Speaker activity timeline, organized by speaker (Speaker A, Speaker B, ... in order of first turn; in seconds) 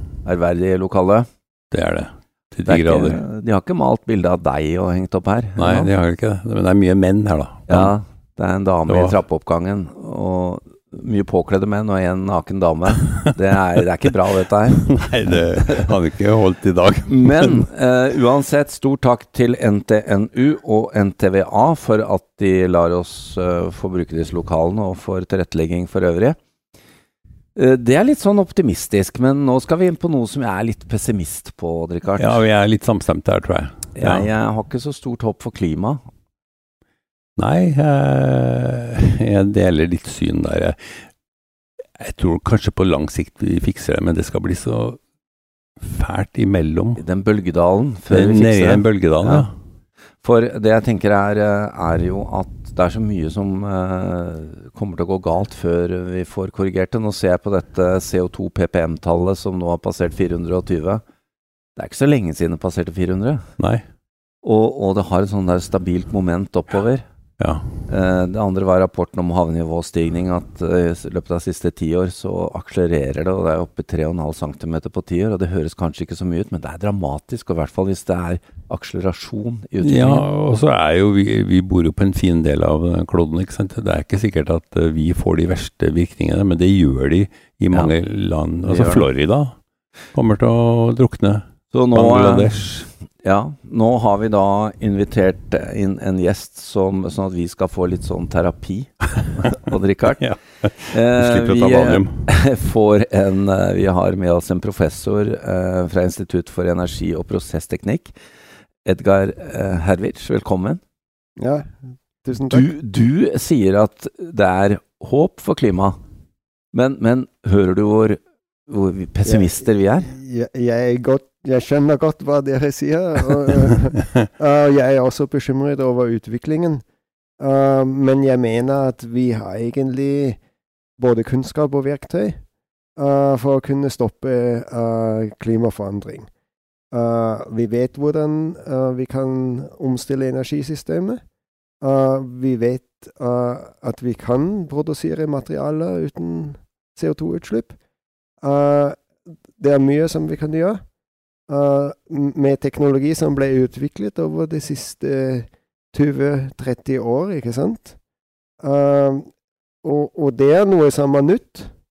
Speaker A: 0.2-1.2, 2.7-5.9, 7.7-14.8, 17.1-26.4, 27.5-32.5, 34.0-36.0, 47.0-49.5, 50.2-61.0, 61.8-63.5, 64.4-67.0, 67.9-80.3, 88.6-89.1, 91.7-92.7, 93.2-100.2, 100.9-108.1, 108.8-110.8, 112.5-116.0, 116.7-120.1
Speaker B: 1.7-3.2, 5.6-7.9, 8.9-9.2, 14.8-17.6, 32.2-34.3, 37.4-41.0, 42.0-45.0, 45.8-47.0, 48.1-49.5, 79.8-89.5, 90.2-92.9, 100.2-102.1
Speaker C: 111.4-112.7, 119.2-126.8, 127.4-130.4, 131.0-132.4, 133.0-136.3, 136.9-141.2, 141.8-147.8, 148.4-150.8, 151.5-157.9, 158.6-159.3, 159.8-161.7